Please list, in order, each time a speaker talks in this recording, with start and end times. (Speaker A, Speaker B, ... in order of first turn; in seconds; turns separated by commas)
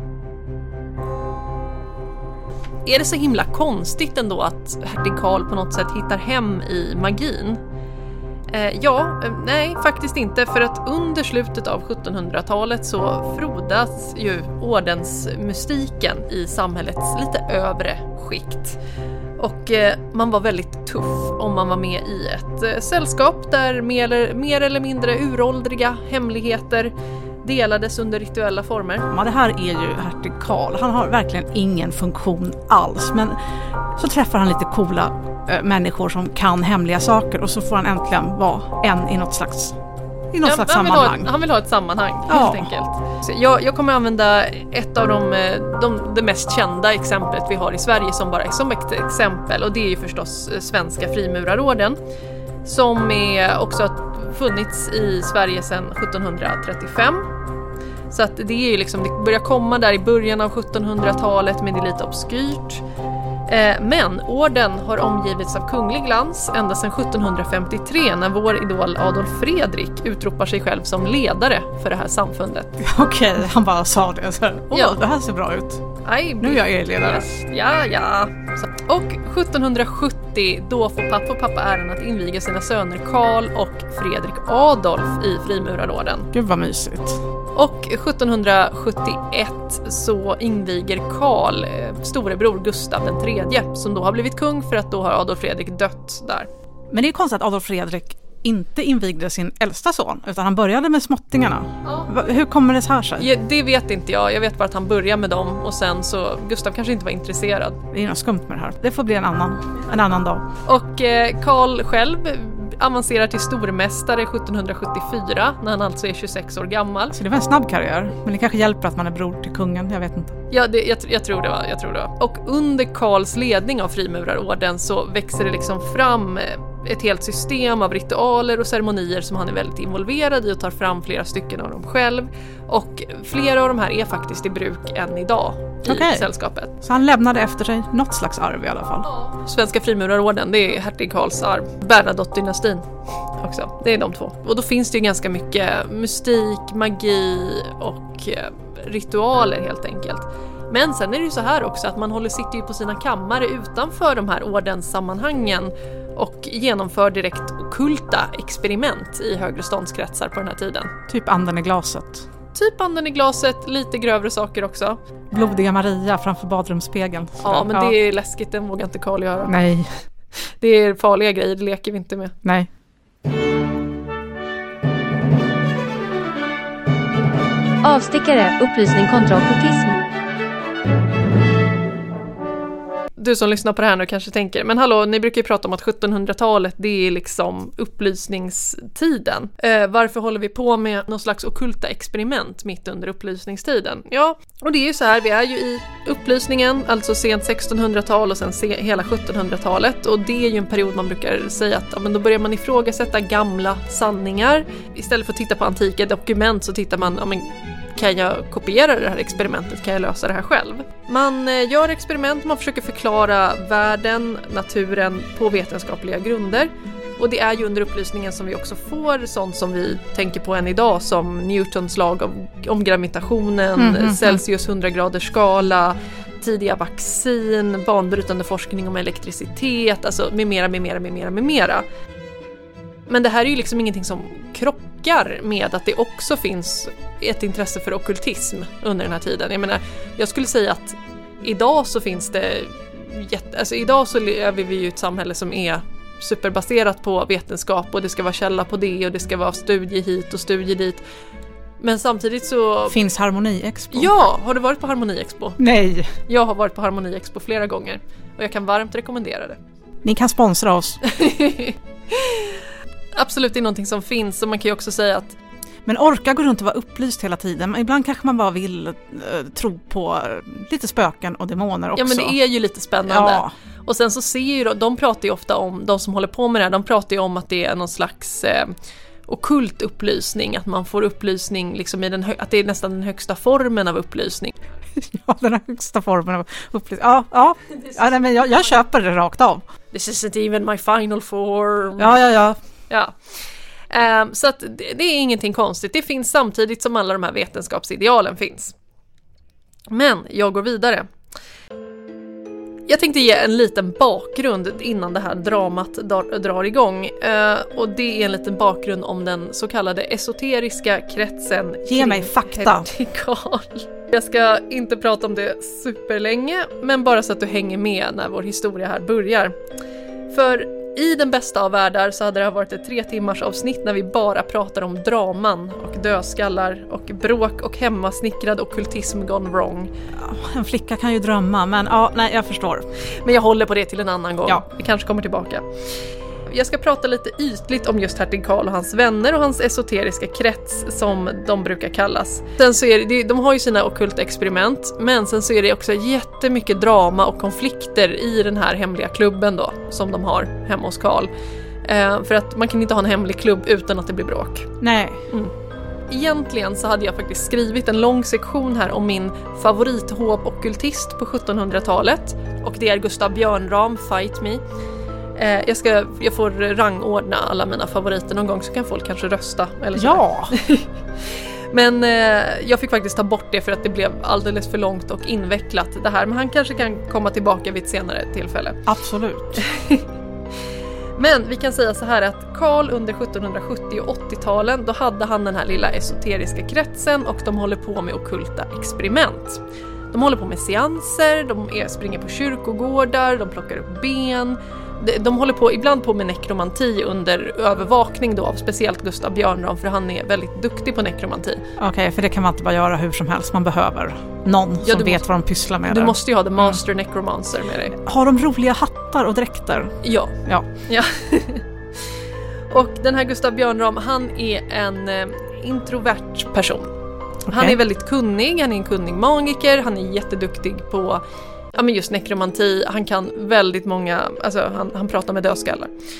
Speaker A: 2.8-7.6, Speaker A: 8.5-18.8, Speaker A: 19.4-29.1, Speaker B: 29.1-39.8, Speaker B: 40.3-41.3, Speaker A: 40.4-52.0, Speaker B: 42.3-42.7, Speaker A: 52.6-57.3, Speaker A: 58.1-62.8, Speaker A: 63.5-72.8, Speaker B: 72.8-77.3, Speaker A: 74.7-75.0, Speaker A: 76.0-86.3, Speaker B: 86.3-87.2, Speaker A: 87.5-96.5, Speaker B: 96.9-103.3, Speaker A: 103.2-107.8, Speaker B: 107.9-110.5, Speaker A: 110.6-117.2, Speaker B: 117.1-120.4, Speaker A: 120.5-136.7, Speaker B: 135.8-136.3, Speaker B: 136.8-139.1, Speaker A: 139.1-142.8, Speaker A: 143.4-160.9, Speaker B: 161.1-162.3, Speaker A: 162.5-165.0, Speaker B: 165.3-167.9, Speaker A: 167.4-169.6, Speaker B: 169.4-169.9, Speaker A: 170.5-172.3, Speaker B: 172.4-172.7, Speaker C: 177.8-180.0, Speaker A: 183.2-231.8, Speaker B: 223.8-224.4, Speaker A: 233.1-251.0, Speaker A: 251.8-253.0, Speaker B: 252.9-254.2, Speaker A: 253.9-255.6, Speaker B: 255.6-256.1, Speaker A: 256.3-259.6, Speaker B: 260.0-261.0, Speaker A: 261.0-262.6, Speaker A: 263.1-265.4, Speaker B: 265.8-272.4, Speaker A: 271.9-278.7, Speaker B: 273.1-273.5, Speaker A: 279.3-284.6, Speaker B: 284.9-289.6, Speaker A: 289.9-292.2, Speaker B: 292.0-292.6, Speaker A: 292.9-298.7, Speaker A: 299.9-301.1, Speaker A: 302.9-319.6, Speaker B: 311.9-312.9, Speaker A: 320.3-329.9, Speaker B: 330.1-332.9, Speaker A: 333.1-351.3, Speaker A: 351.8-354.7, Speaker B: 354.8-355.3, Speaker A: 356.1-364.6, Speaker A: 365.4-378.8, Speaker B: 369.9-370.5, Speaker B: 378.9-379.6, Speaker A: 379.5-380.1, Speaker A: 381.1-389.6, Speaker A: 390.1-401.6, Speaker B: 401.8-406.8, Speaker A: 404.8-405.2, Speaker A: 405.9-407.9, Speaker B: 407.9-410.7, Speaker A: 410.0-411.6, Speaker A: 412.7-416.9, Speaker A: 417.5-425.9, Speaker B: 417.5-417.8